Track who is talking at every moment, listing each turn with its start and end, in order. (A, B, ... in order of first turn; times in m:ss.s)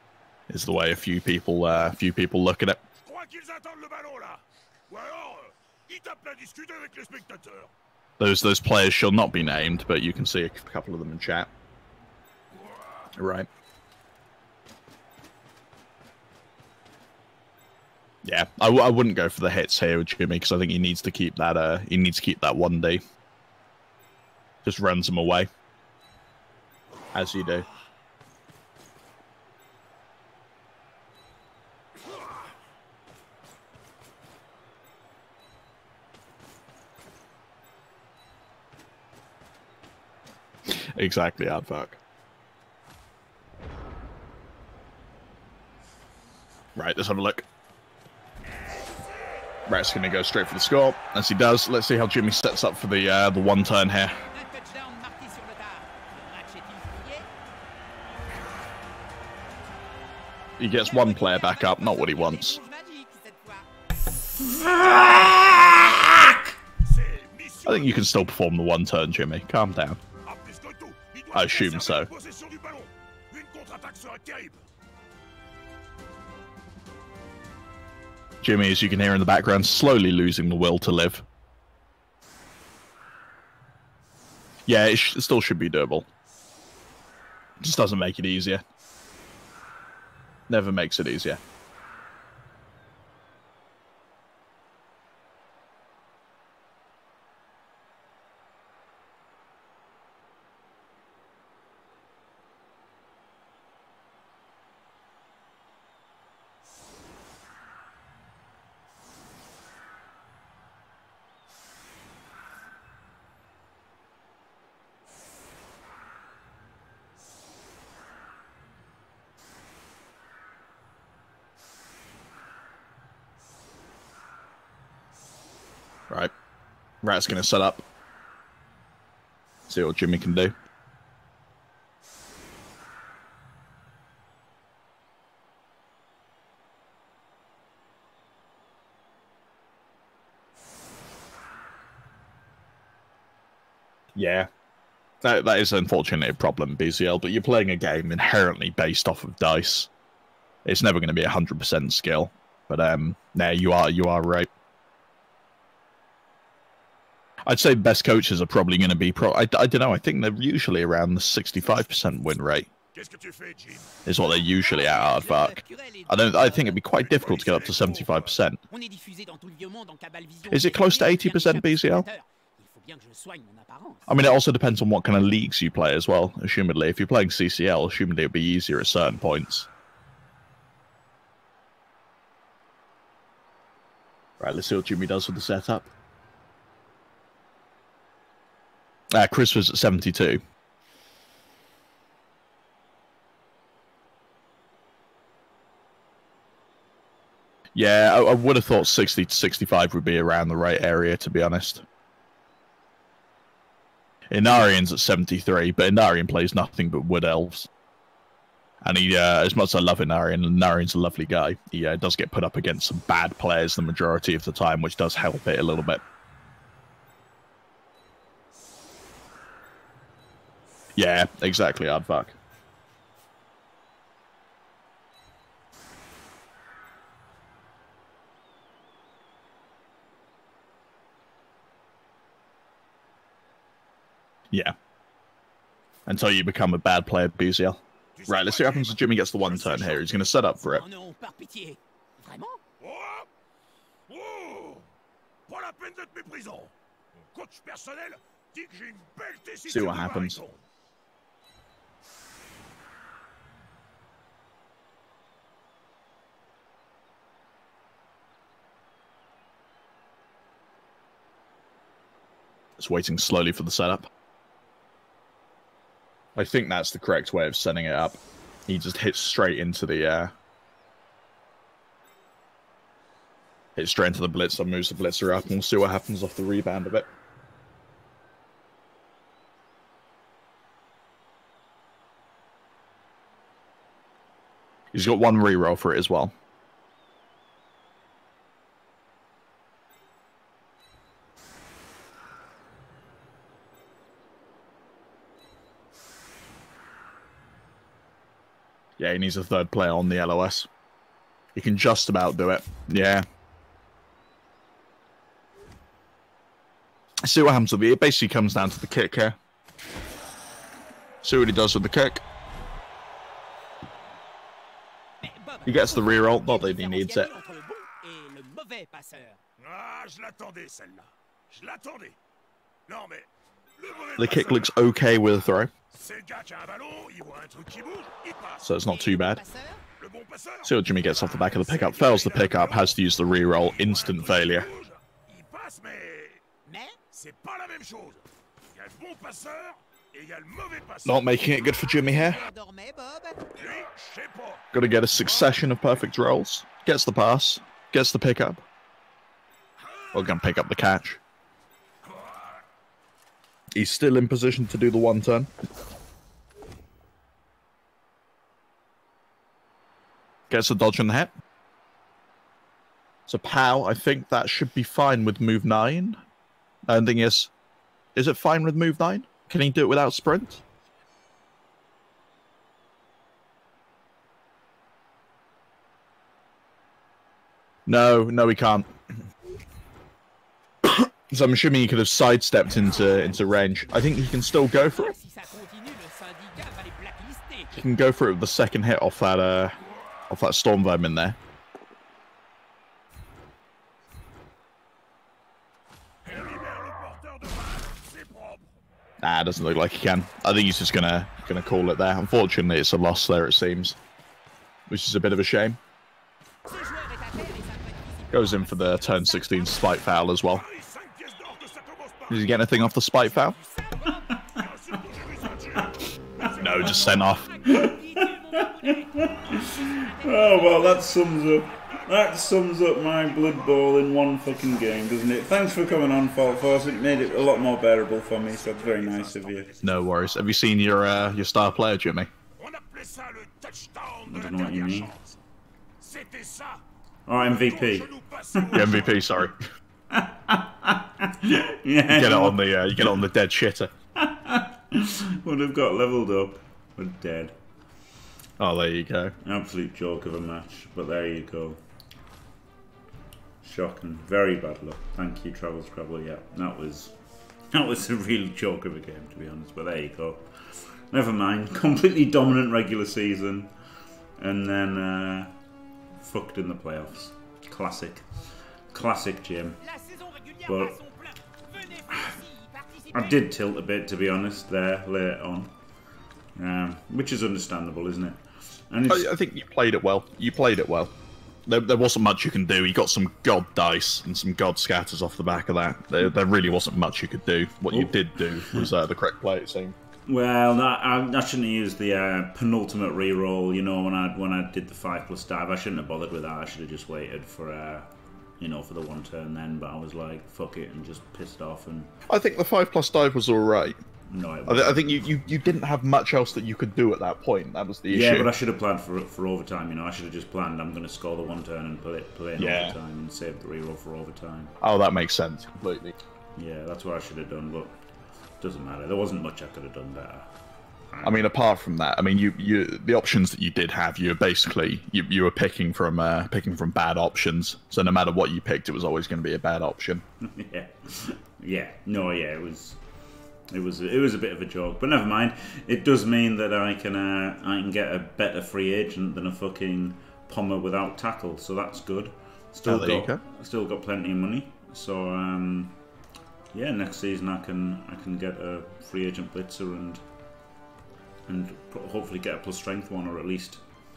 0:00.5-0:02.8 A
0:03.0-0:07.7 B
0:08.2-0:11.5 A
0:12.6-0:13.0 B
0:13.2-0:13.5 A
0:18.2-0:23.0 A
0:24.6-0:25.5 A
0:27.1-0:27.7 A
0:40.7-0:42.0 A
0:46.8-0:47.4 A
0:49.7-0:54.2 A
0:54.2-0:57.3 C
1:00.6-1:02.6 A
1:00.8-1:03.7 C
1:04.4-1:06.4 D
1:06.8-1:08.1 B
1:07.7-1:10.0 A
1:10.2-1:14.6 B
1:11.3-1:12.1 A
1:18.4-1:21.2 A
1:24.7-1:26.1 A
1:27.6-1:28.6 A
1:30.5-1:31.4 A
2:07.0-2:07.8 A
2:09.7-2:10.5 A
2:24.1-2:24.5 A
2:25.2-2:29.9 A
2:30.6-2:34.5 A
2:37.4-2:42.7 A
2:42.9-2:44.0 B
2:44.0-2:48.6 A
2:44.4-2:46.9 C
2:47.0-2:48.4 B
2:48.7-2:54.1 C
2:50.5-2:52.1 A
2:54.1-2:59.7 A
3:04.4-3:05.9 A
3:09.1-3:10.4 A
3:17.7-3:21.8 A
3:24.3-3:27.7 A
3:28.8-3:36.0 A
3:41.0-3:42.4 A
3:56.0-4:00.8 A
3:58.2-4:00.3 B
4:00.7-4:02.6 C
4:02.8-4:03.3 B
4:04.1-4:04.9 B
4:05.5-4:06.7 B
4:07.3-4:10.6 B
4:09.7-4:10.4 A
4:22.8-4:24.1 A
4:26.4-4:30.3 A
4:33.8-4:37.1 A
4:44.9-4:46.3 A
4:59.0-5:00.7 A
5:01.5-5:03.3 A
5:07.2-5:09.4 A
5:11.2-5:12.2 A
5:15.2-5:19.4 C
5:15.6-5:17.3 A
5:19.6-5:22.2 B
5:22.9-5:24.7 B
5:24.2-5:25.7 A
5:25.9-5:28.6 B
5:28.6-5:29.4 A
5:28.9-5:29.8 C
5:30.0-5:36.4 B
5:30.6-5:34.7 A
5:36.7-5:37.0 C
5:37.1-5:41.3 B
5:41.0-5:42.5 A
5:41.6-5:43.5 C
5:43.5-5:44.6 B
5:44.7-5:48.6 A
5:49.8-5:50.0 B
5:50.1-5:51.2 A
5:52.0-5:52.4 B
5:53.7-5:55.5 A
6:00.5-6:01.3 A
6:03.3-6:06.2 A
6:06.9-6:07.5 A
6:08.1-6:10.6 A
6:17.9-6:18.9 A
6:20.8-6:25.2 A
6:24.6-6:27.7 C
6:27.7-6:29.8 A
6:30.3-6:31.4 A
6:36.2-6:38.7 B
6:39.2-6:44.0 A
6:44.9-6:45.8 A
6:46.7-6:50.0 C
6:48.3-6:50.6 A
6:50.5-6:52.6 B
6:52.3-6:53.6 A
6:53.2-6:54.5 C
6:54.1-6:54.7 D
6:54.5-6:57.2 B
6:56.5-6:57.5 A
6:56.6-7:01.2 C
6:57.6-7:09.7 D
7:03.2-7:11.2 B
7:09.8-7:12.3 A
7:12.6-7:15.4 B
7:14.3-7:15.1 D
7:16.0-7:16.8 B
7:17.3-7:19.1 D
7:17.4-7:19.2 B
7:18.7-7:19.6 A
7:20.1-7:23.2 D
7:22.1-7:23.9 A
7:24.2-7:27.6 D
7:28.6-7:29.3 A
7:29.4-7:31.8 D
7:33.6-7:37.2 D
7:37.7-7:40.5 D
7:41.1-7:43.7 D
7:44.4-7:45.5 D
7:46.2-7:49.8 D
7:49.8-7:53.5 C
7:50.7-7:51.0 D
7:53.1-7:55.7 D
7:56.6-7:59.3 D
7:59.1-8:01.1 A
8:01.6-8:09.9 A
8:07.9-8:08.9 D
8:10.3-8:22.1 D
8:22.3-8:24.0 A
8:24.3-8:25.6 D
8:24.7-8:28.5 A
8:28.1-8:34.7 D
8:32.6-8:32.9 A
8:34.8-8:36.2 A
8:36.6-8:37.9 D
8:38.6-8:40.5 D
8:41.1-8:41.5 D
8:41.2-8:50.2 A
8:50.4-8:53.0 D
8:53.7-9:06.0 D
9:02.8-9:03.4 A
9:06.7-9:10.2 D
9:11.5-9:13.8 D